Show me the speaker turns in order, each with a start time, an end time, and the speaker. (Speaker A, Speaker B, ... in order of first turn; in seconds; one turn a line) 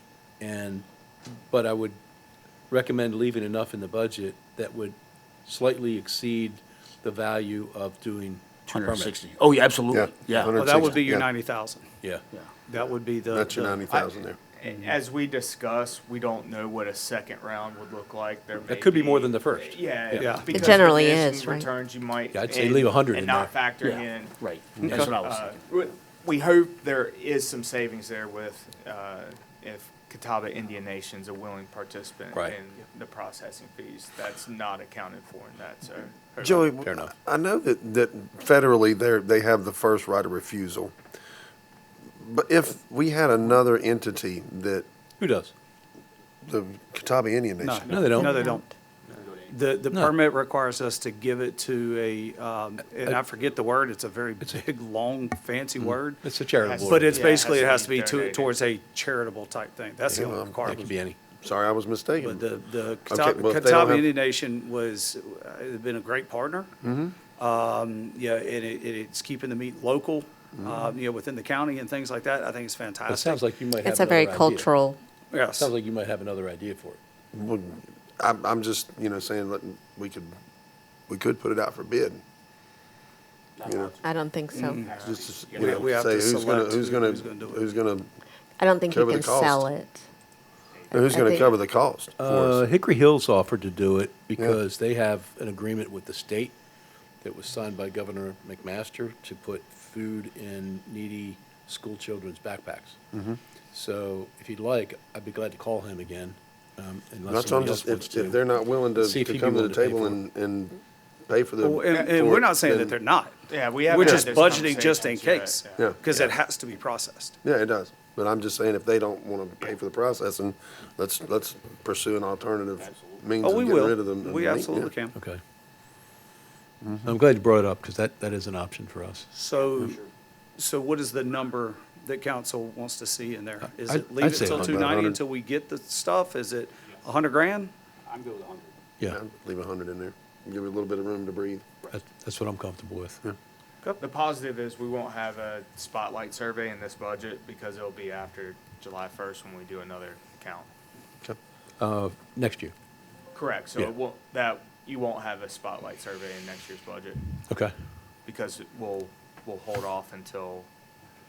Speaker A: 0.4-2.0
Speaker A: 2.7-4.9
Speaker A: 5.5-9.1
Speaker B: 8.7-10.5
Speaker C: 9.9-11.2
Speaker D: 10.5-11.9
Speaker D: 12.7-13.8
Speaker C: 13.2-14.4
Speaker E: 13.9-36.7
Speaker D: 14.7-14.9
Speaker A: 18.6-20.8
Speaker D: 20.1-20.7
Speaker F: 20.5-21.7
Speaker A: 22.3-23.5
Speaker B: 23.8-25.9
Speaker C: 36.4-40.9
Speaker A: 36.8-37.1
Speaker C: 42.2-44.9
Speaker A: 45.2-45.5
Speaker C: 46.4-47.9
Speaker D: 47.6-48.7
Speaker A: 47.9-48.4
Speaker B: 47.9-48.2
Speaker F: 48.2-48.7
Speaker B: 49.1-49.5
Speaker D: 49.5-56.2
Speaker A: 55.8-57.3
Speaker E: 56.6-58.5
Speaker D: 56.8-60.9
Speaker C: 60.1-62.5
Speaker A: 60.6-61.2
Speaker D: 62.2-66.7
Speaker C: 63.1-64.1
Speaker C: 66.8-67.2
Speaker D: 67.4-73.5
Speaker C: 70.6-70.8
Speaker A: 73.1-74.7
Speaker F: 73.8-75.0
Speaker D: 75.3-75.7
Speaker A: 75.5-77.0
Speaker C: 77.3-80.3
Speaker C: 81.1-82.2
Speaker B: 83.5-86.0
Speaker C: 83.6-83.9
Speaker F: 84.0-84.8
Speaker D: 84.5-84.9
Speaker C: 85.0-88.1
Speaker D: 85.5-87.7
Speaker F: 88.6-90.0
Speaker C: 88.9-89.7
Speaker B: 90.7-91.4
Speaker C: 90.9-92.6
Speaker F: 91.1-91.5
Speaker A: 92.2-96.5
Speaker A: 97.2-103.0
Speaker C: 103.1-103.4
Speaker A: 103.7-110.2
Speaker C: 107.3-113.0
Speaker D: 111.6-117.4
Speaker E: 113.5-115.8
Speaker C: 114.0-114.3
Speaker C: 115.8-116.3
Speaker C: 117.4-124.9
Speaker B: 122.8-123.2
Speaker D: 123.4-125.2
Speaker A: 125.1-125.4
Speaker C: 126.8-127.1
Speaker A: 127.0-129.2
Speaker D: 129.3-130.0
Speaker B: 129.5-130.1
Speaker D: 130.6-137.7
Speaker A: 133.8-134.8
Speaker C: 134.4-135.2
Speaker B: 138.0-138.7
Speaker C: 139.1-141.7
Speaker A: 141.9-143.2
Speaker E: 144.0-150.7
Speaker A: 151.8-152.7
Speaker E: 153.3-157.2
Speaker E: 158.2-160.7